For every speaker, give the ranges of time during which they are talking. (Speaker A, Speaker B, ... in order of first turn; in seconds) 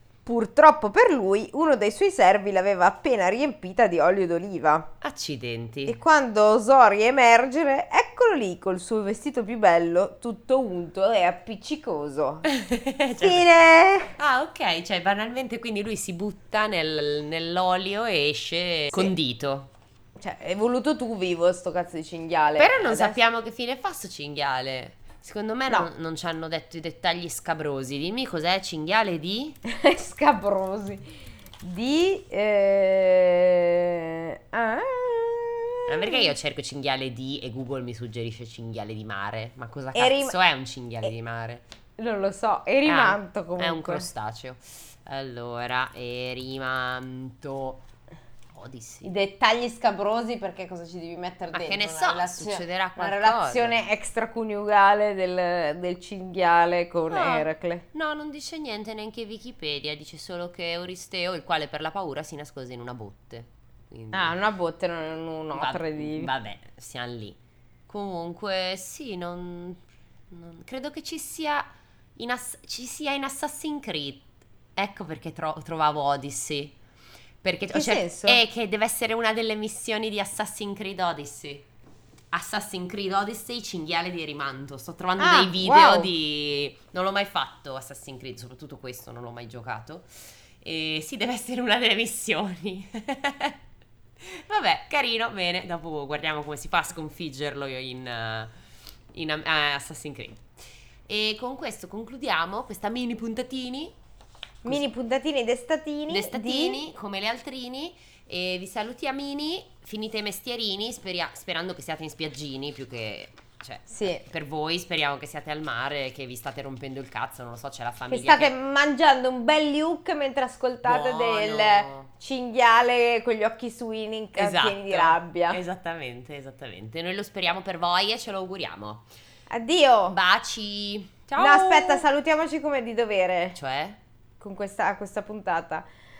Speaker A: 0.2-4.9, 5.8-12.4, 13.2-14.1, 20.2-23.2, 29.6-31.0, 31.6-36.3, 39.9-40.4, 42.0-44.1, 49.0-57.9, 64.1-66.3, 77.7-78.4, 85.2-86.1, 104.6-106.8, 113.9-114.2, 118.1-125.6, 129.5-130.2, 131.4-133.6, 134.4-135.8
Speaker B: 5.0-6.0, 12.4-13.5, 14.1-19.7, 22.6-29.6, 35.9-41.6, 42.9-47.8, 48.5-49.1, 51.5-53.8, 57.1-64.3, 65.5-67.4, 67.9-76.7, 77.4-81.7, 82.3-90.1, 90.6-93.6, 94.2-98.5, 99.1-100.5, 101.1-104.0, 106.1-118.5, 120.8-122.1, 124.3-129.1, 130.1-132.0, 133.5-134.0